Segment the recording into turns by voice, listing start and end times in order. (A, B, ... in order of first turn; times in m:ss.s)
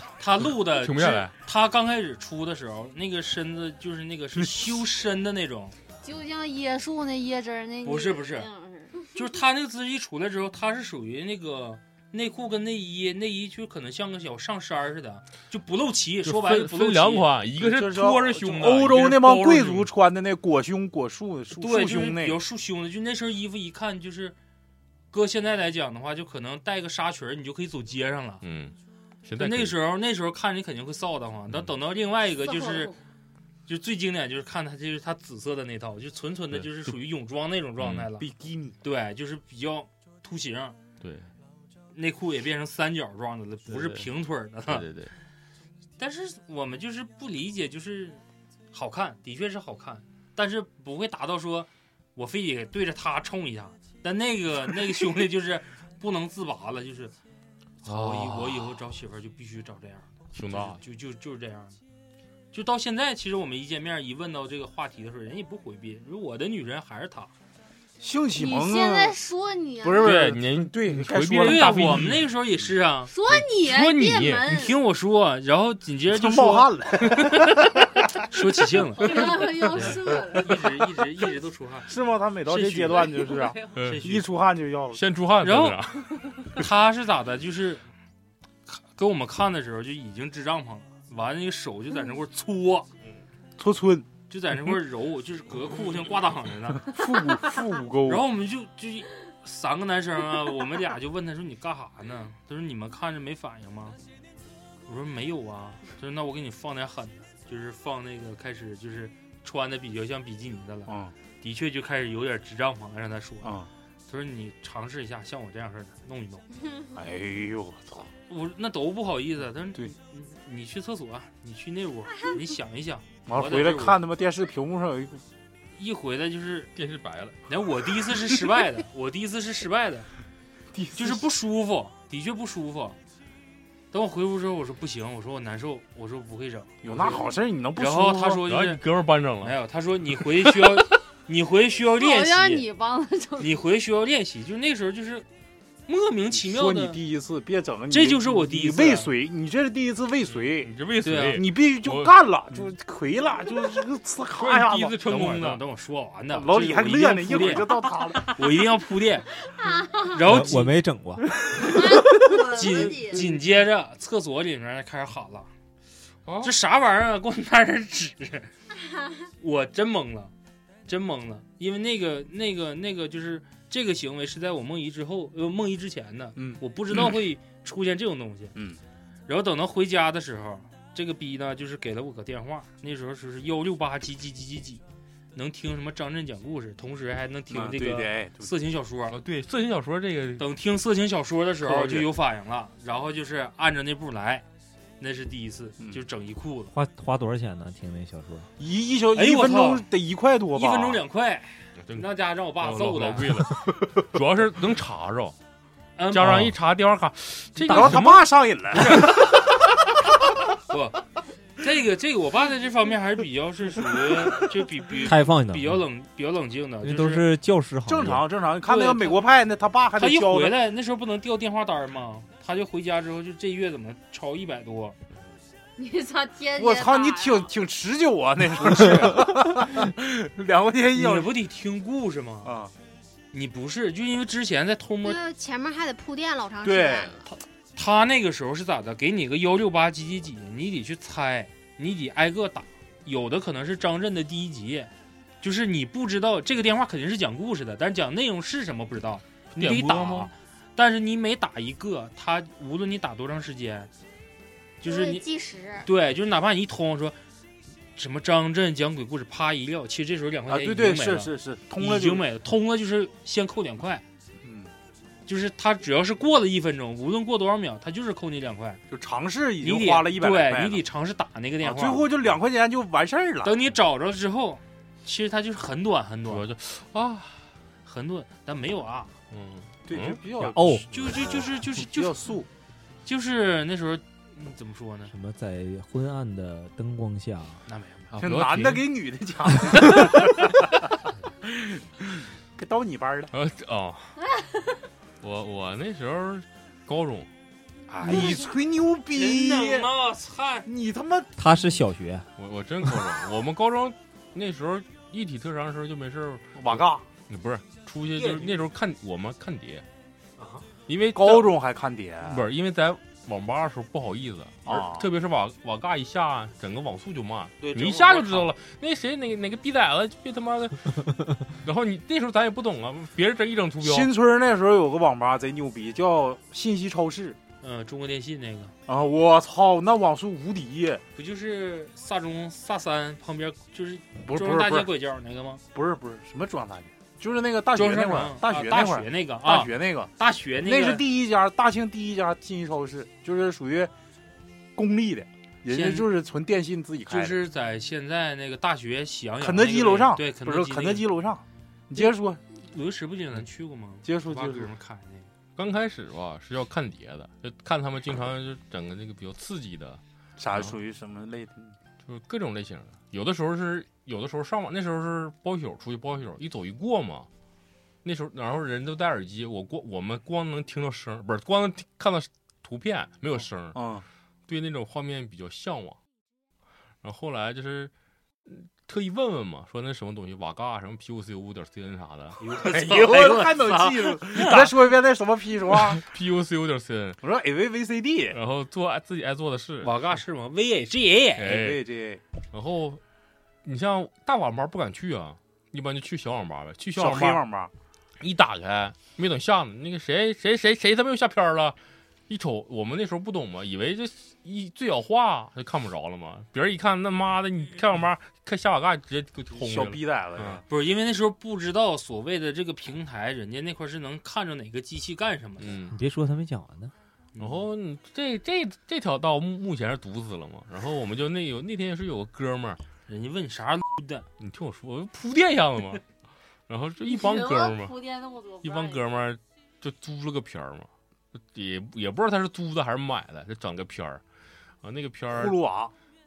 0:00.2-0:05.8 A
0:00.4-0:01.4 B
0:06.0-0:09.0 C
0:07.8-0:08.5 A
0:09.1-0:17.3 A
0:16.2-0:19.8 B
0:17.6-0:22.4 D
0:21.6-0:24.4 A
0:25.1-0:28.4 A
0:28.4-0:29.8 B
0:29.4-0:32.9 A
0:33.7-0:38.3 A
0:36.5-0:37.0 B
0:37.8-0:38.1 B
0:38.2-0:38.8 D
0:38.8-0:40.8 A
0:41.0-0:41.3 B
0:41.9-0:44.9 A
0:43.7-0:44.1 B
0:44.6-0:45.2 B
0:46.0-0:57.2 A
0:57.8-1:01.8 A
0:57.8-0:58.8 B
1:00.3-1:00.8 B
1:02.5-1:07.3 A
1:08.0-1:09.2 D
1:08.4-1:10.2 C
1:09.8-1:12.1 D
1:10.0-1:12.3 B
1:11.4-1:13.1 A
1:13.1-1:14.3 C
1:13.2-1:14.7 E
1:13.3-1:14.6 B
1:14.5-1:16.7 A
1:16.1-1:18.1 D
1:18.3-1:21.9 A
1:19.0-1:20.4 C
1:20.1-1:20.4 D
1:21.9-1:25.0 D
1:22.5-1:24.2 A
1:23.4-1:23.7 C
1:23.7-1:24.1 B
1:24.9-1:26.7 B
1:25.4-1:25.8 A
1:26.5-1:27.8 A
1:28.7-1:32.9 A
1:33.6-1:34.1 D
1:34.3-1:37.0 A
1:36.8-1:38.3 D
1:38.0-1:44.0 A
1:44.9-1:53.6 A
1:50.9-1:51.1 D
1:53.4-1:53.7 D
1:54.1-1:56.4 A
1:56.9-1:58.1 D
1:58.3-2:04.0 A
2:03.3-2:05.2 D
2:05.8-2:06.7 A
2:06.8-2:07.4 B
2:07.5-2:10.1 A
2:10.7-2:11.2 D
2:10.9-2:13.0 A
2:13.9-2:17.2 A
2:16.8-2:18.4 D
2:17.8-2:18.8 A
2:18.4-2:19.6 B
2:19.4-2:22.7 A
2:20.4-2:20.8 B
2:22.0-2:23.6 C
2:23.4-2:25.3 A
2:25.9-2:27.0 A
2:26.3-2:30.7 D
2:27.9-2:29.1 A
2:30.4-2:32.2 B
2:31.0-2:31.4 A
2:31.4-2:35.4 D
2:34.4-2:35.6 B
2:35.1-2:39.4 A
2:36.3-2:38.4 D
2:40.0-2:40.8 A
2:40.2-2:41.4 F
2:42.0-2:43.2 E
2:42.3-2:43.1 C
2:42.4-2:45.5 A
2:46.3-2:46.5 B
2:46.4-2:48.5 A
2:49.4-2:50.3 A
2:50.9-2:58.5 A
2:56.4-2:56.6 D
2:58.6-2:58.8 D
2:59.3-3:04.8 A
3:05.4-3:09.2 A
3:07.5-3:08.5 D
3:09.1-3:10.5 B
3:10.4-3:14.4 A
3:11.7-3:12.0 D
3:15.0-3:16.7 A
3:16.7-3:18.5 F
3:18.6-3:21.0 D
3:19.1-3:19.9 A
3:20.5-3:23.3 A
3:21.8-3:25.4 B
3:26.0-3:26.3 A
3:26.1-3:28.3 B
3:26.2-3:26.5 F
3:27.7-3:29.4 D
3:27.7-3:28.0 F
3:28.8-3:29.1 A
3:30.7-3:31.1 A
3:31.6-3:37.3 A
3:35.0-3:35.8 F
3:36.8-3:38.3 F
3:37.8-3:40.6 D
3:38.6-3:39.2 A
3:40.0-3:45.0 A
3:45.8-3:47.5 C
3:46.6-3:51.4 D
3:50.9-3:52.5 A
3:52.4-3:52.7 D
3:53.3-3:55.2 A
3:55.0-3:57.2 E
3:56.6-3:57.3 D
3:57.8-4:13.9 A
4:09.5-4:10.3 B
4:14.8-4:15.2 A
4:14.8-4:15.9 E
4:15.8-4:17.2 A
4:18.0-4:24.0 A
4:20.5-4:22.3 D
4:24.4-4:24.7 D
4:25.3-4:28.8 A
4:28.9-4:30.8 D
4:29.6-4:32.1 A
4:31.6-4:33.6 D
4:33.4-4:36.5 A
4:36.3-4:37.5 B
4:37.8-4:39.2 A
4:39.3-4:41.2 B
4:39.9-4:42.5 D
4:40.5-4:40.8 F
4:40.9-4:42.2 A
4:43.1-4:45.1 A
4:45.1-4:47.6 F
4:47.7-4:48.1 A
4:48.1-4:48.9 B
4:48.2-4:50.5 D
4:51.4-4:53.3 D
4:53.3-4:54.2 B
4:55.2-4:57.3 B
4:57.9-4:59.9 D
4:59.1-5:00.7 A
5:00.7-5:01.3 D
5:01.4-5:02.3 F
5:02.4-5:09.8 B
5:06.6-5:07.0 D
5:08.2-5:08.5 A
5:10.9-5:11.5 B
5:11.2-5:12.5 D
5:12.2-5:24.1 B
5:14.7-5:15.1 D
5:17.6-5:18.5 A
5:23.8-5:27.4 D
5:27.6-5:28.7 A
5:28.9-5:31.0 D
5:31.2-5:35.6 A
5:34.2-5:34.9 D
5:35.7-5:43.9 D
5:37.7-5:41.1 A
5:44.8-5:47.4 D
5:45.7-5:46.1 A
5:47.1-5:51.1 A
5:49.4-5:52.4 D
5:52.6-5:55.3 A
5:54.0-5:54.7 D
5:55.6-6:00.0 B
6:00.4-6:01.8 D
6:02.0-6:07.3 B
6:08.0-6:13.8 B
6:13.7-6:14.0 D
6:14.5-6:16.0 B
6:17.0-6:17.9 B
6:18.5-6:22.4 B
6:22.4-6:24.7 A
6:22.6-6:26.0 D
6:25.8-6:27.2 B
6:27.2-6:28.4 D
6:28.3-6:29.9 B
6:29.8-6:31.5 A
6:31.4-6:31.8 B
6:31.4-6:32.2 D
6:32.5-6:33.0 B
6:33.6-6:37.4 B
6:37.0-6:37.7 D
6:38.2-6:41.8 B
6:42.3-6:50.6 B
6:49.5-6:50.6 D
6:50.7-6:55.8 A
6:55.6-6:56.0 B
6:55.9-6:56.9 F
6:57.4-6:57.6 A
6:57.4-7:02.8 B
7:03.1-7:04.3 A
7:04.4-7:06.0 B
7:06.7-7:08.0 B
7:07.1-7:09.0 C
7:08.6-7:10.9 B
7:11.5-7:14.2 B
7:14.8-7:15.6 B
7:15.3-7:15.9 D